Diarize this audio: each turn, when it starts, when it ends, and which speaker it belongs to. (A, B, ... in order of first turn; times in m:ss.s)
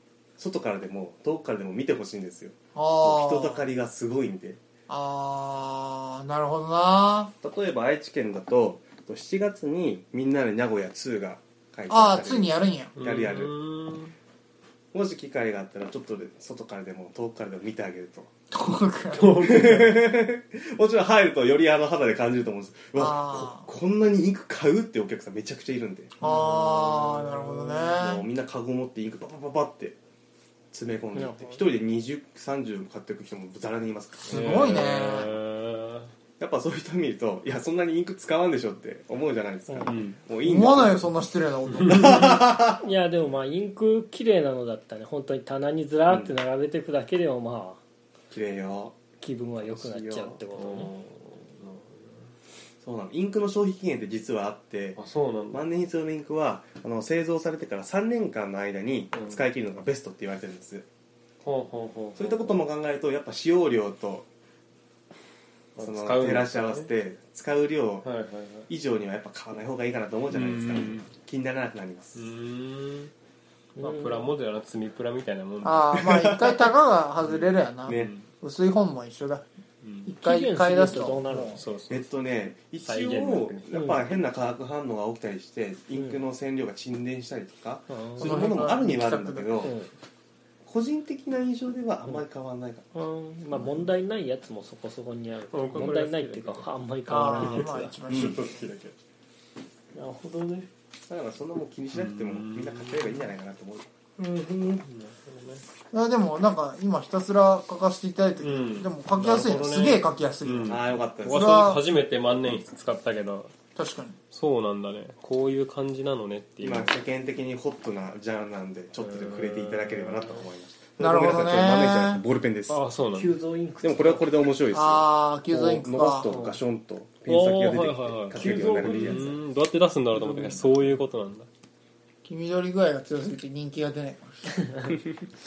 0:00.4-0:04.6 A
0:02.8-0:03.6 B
0:04.9-0:07.3 B
0:07.4-0:13.5 A
0:11.9-0:13.0 B
0:13.0-0:14.1 C
0:14.9-0:18.3 A
0:18.5-0:19.5 B
0:19.1-0:20.1 C
0:19.4-0:26.1 A
0:23.0-0:23.7 B
0:26.2-0:28.2 B
0:26.2-0:27.9 C
0:27.9-0:30.0 A
0:30.7-0:34.6 A
0:31.2-0:31.7 D
0:34.3-0:35.3 B
0:34.3-0:36.1 C
0:36.4-0:41.0 A
0:39.9-0:40.2 C
0:40.4-0:42.4 B
0:41.8-0:42.2 C
0:41.8-0:42.8 A
0:42.8-0:47.8 D
0:46.1-0:46.4 A
0:48.3-0:49.0 A
0:49.2-0:50.9 D
0:49.6-0:50.4 A
0:50.5-0:52.3 C
0:52.8-0:55.0 A
0:55.0-0:55.6 C
0:55.5-1:00.9 A
0:59.1-0:59.4 C
1:01.4-1:02.5 C
1:02.2-1:04.3 A
1:05.8-1:06.9 C
1:05.8-1:08.1 A
1:08.0-1:08.7 C
1:08.7-1:12.3 A
1:10.3-1:11.1 C
1:12.2-1:13.1 C
1:13.8-1:14.3 D
1:13.8-1:16.3 C
1:15.6-1:19.4 B
1:16.2-1:16.5 A
1:17.8-1:18.3 C
1:17.9-1:18.2 A
1:19.8-1:20.1 C
1:20.0-1:21.6 B
1:20.2-1:21.6 D
1:21.5-1:22.1 C
1:21.9-1:29.7 A
1:22.9-1:23.7 C
1:23.7-1:24.0 D
1:27.9-1:28.4 D
1:28.2-1:29.7 B
1:29.6-1:29.9 D
1:30.6-1:32.9 A
1:32.9-1:38.0 D
1:35.5-1:36.7 C
1:37.1-1:38.7 B
1:37.3-1:38.9 C
1:38.1-1:38.4 A
1:40.0-1:40.7 D
1:41.1-1:43.9 A
1:41.9-1:43.3 C
1:44.2-1:44.8 D
1:44.6-1:45.6 C
1:45.9-1:51.8 B
1:48.4-1:53.5 C
1:50.7-1:51.8 A
1:53.8-1:54.2 B
1:54.3-1:57.0 C
1:56.6-2:02.8 A
1:59.0-2:00.3 C
2:01.0-2:02.2 B
2:02.7-2:03.4 C
2:03.2-2:04.3 D
2:03.8-2:09.4 A
2:04.7-2:06.4 B
2:06.3-2:06.6 D
2:07.3-2:11.5 C
2:08.4-2:09.4 D
2:10.1-2:10.6 D
2:12.2-2:14.4 B